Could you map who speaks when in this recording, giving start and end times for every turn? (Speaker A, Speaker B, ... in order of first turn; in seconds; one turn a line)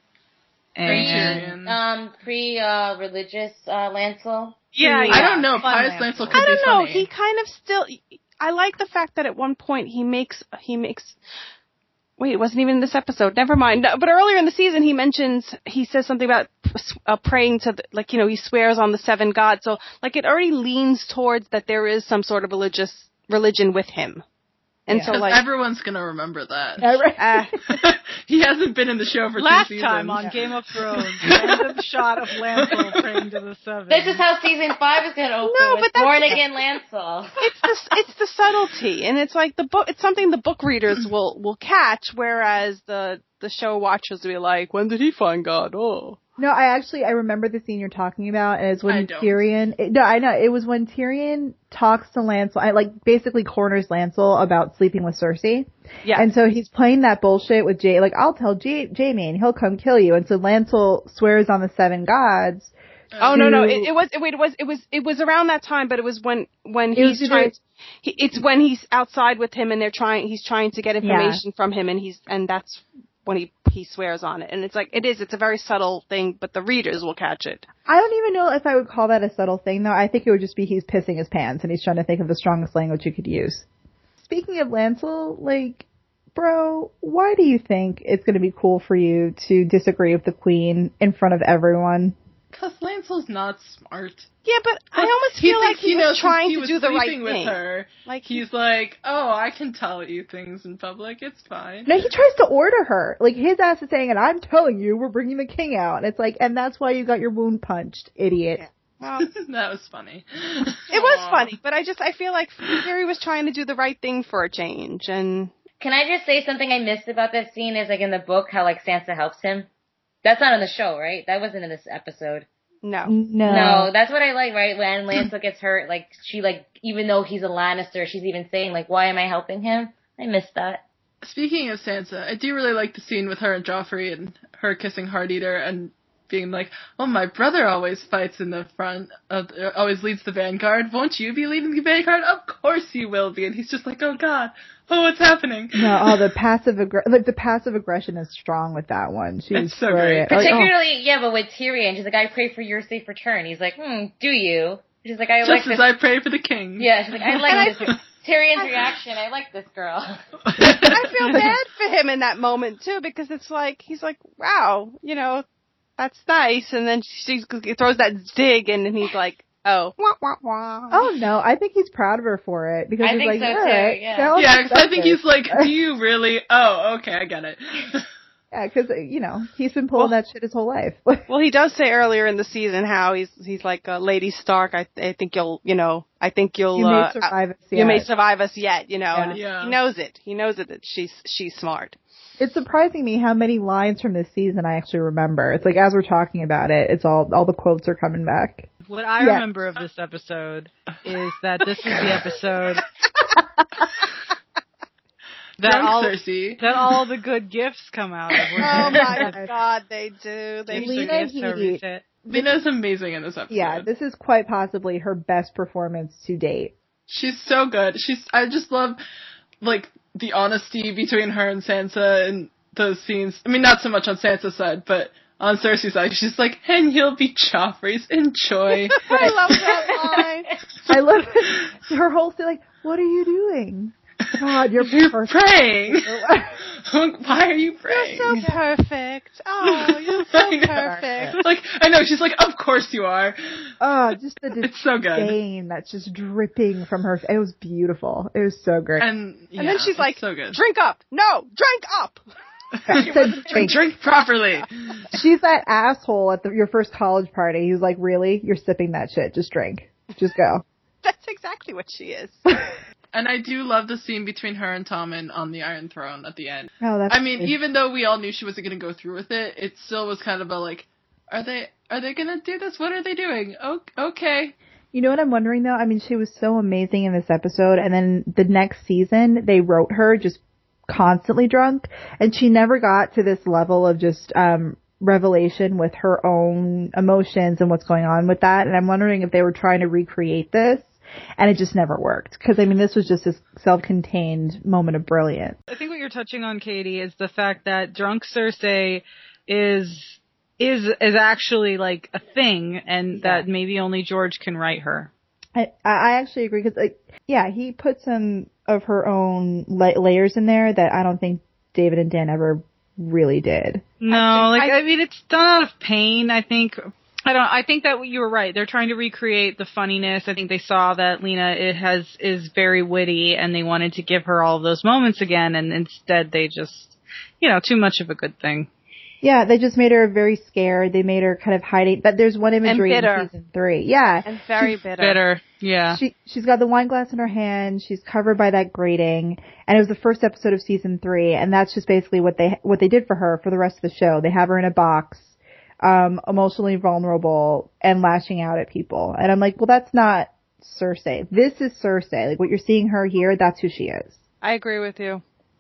Speaker A: 0.7-1.5
Speaker B: 0.8-1.8
Speaker C: 0.8-4.6
Speaker D: 4.7-5.3
Speaker A: 4.8-6.5
Speaker B: 5.1-7.1
Speaker D: 6.3-11.2
Speaker D: 12.2-24.2
Speaker D: 24.9-25.4
Speaker B: 25.1-26.9
Speaker E: 26.8-27.8
Speaker D: 27.2-27.6
Speaker B: 27.7-30.4
Speaker A: 29.4-34.2
Speaker B: 31.2-31.6
Speaker B: 32.6-32.9
Speaker C: 33.9-37.5
Speaker D: 35.4-36.4
Speaker D: 37.4-46.2
Speaker E: 46.4-62.7
Speaker B: 48.9-49.4
Speaker D: 56.0-56.3
Speaker B: 63.1-63.5
Speaker D: 63.2-77.7
Speaker E: 63.3-63.9
Speaker E: 67.0-67.5
Speaker E: 71.0-71.4
Speaker E: 77.8-83.7
Speaker E: 84.2-92.2
Speaker B: 92.5-94.3
Speaker D: 94.4-98.4
Speaker B: 94.9-102.0
Speaker E: 101.8-108.6
Speaker D: 108.5-109.3
Speaker B: 109.2-111.5
Speaker D: 110.9-115.5
Speaker C: 115.8-119.7
Speaker C: 120.2-122.5
Speaker D: 122.8-123.1
Speaker E: 123.1-123.9
Speaker C: 123.5-130.8
Speaker B: 131.2-146.2
Speaker E: 145.7-150.7
Speaker B: 149.5-150.6
Speaker C: 150.3-155.9
Speaker B: 155.4-158.0
Speaker C: 156.8-160.2
Speaker D: 157.5-157.8
Speaker B: 160.5-161.2
Speaker D: 160.7-165.4
Speaker E: 161.3-161.6
Speaker D: 166.0-171.0
Speaker E: 170.9-175.7
Speaker C: 173.0-174.3
Speaker B: 174.3-178.1
Speaker E: 178.5-181.2
Speaker D: 181.3-192.0
Speaker E: 186.8-188.1
Speaker E: 189.1-189.4
Speaker B: 189.3-189.8
Speaker E: 192.4-199.4
Speaker A: 198.8-202.8
Speaker A: 205.6-209.4
Speaker B: 205.6-206.6
Speaker D: 208.6-211.2
Speaker A: 210.7-212.0
Speaker E: 210.7-212.5
Speaker B: 212.3-213.9
Speaker E: 213.5-216.7
Speaker B: 217.1-219.0
Speaker B: 219.6-229.9
Speaker D: 228.9-230.5
Speaker E: 229.1-229.3
Speaker E: 230.9-236.6
Speaker B: 231.4-231.7
Speaker B: 234.8-238.4
Speaker D: 237.9-241.4
Speaker B: 239.6-243.7
Speaker E: 240.8-241.3
Speaker E: 243.8-249.1
Speaker B: 244.6-245.3
Speaker B: 249.0-250.6
Speaker D: 249.6-252.2
Speaker B: 252.8-255.1
Speaker E: 252.9-253.8
Speaker D: 252.9-253.8
Speaker E: 255.1-260.6
Speaker D: 261.0-262.5
Speaker B: 263.1-274.5
Speaker E: 266.8-267.5
Speaker E: 274.9-295.6
Speaker A: 295.7-305.1
Speaker E: 303.2-303.4
Speaker E: 305.5-313.9
Speaker A: 314.0-328.7
Speaker D: 314.1-314.8
Speaker E: 329.2-334.8
Speaker D: 332.6-333.3
Speaker D: 334.2-335.2
Speaker A: 335.0-336.0
Speaker E: 335.9-354.2
Speaker D: 354.4-355.2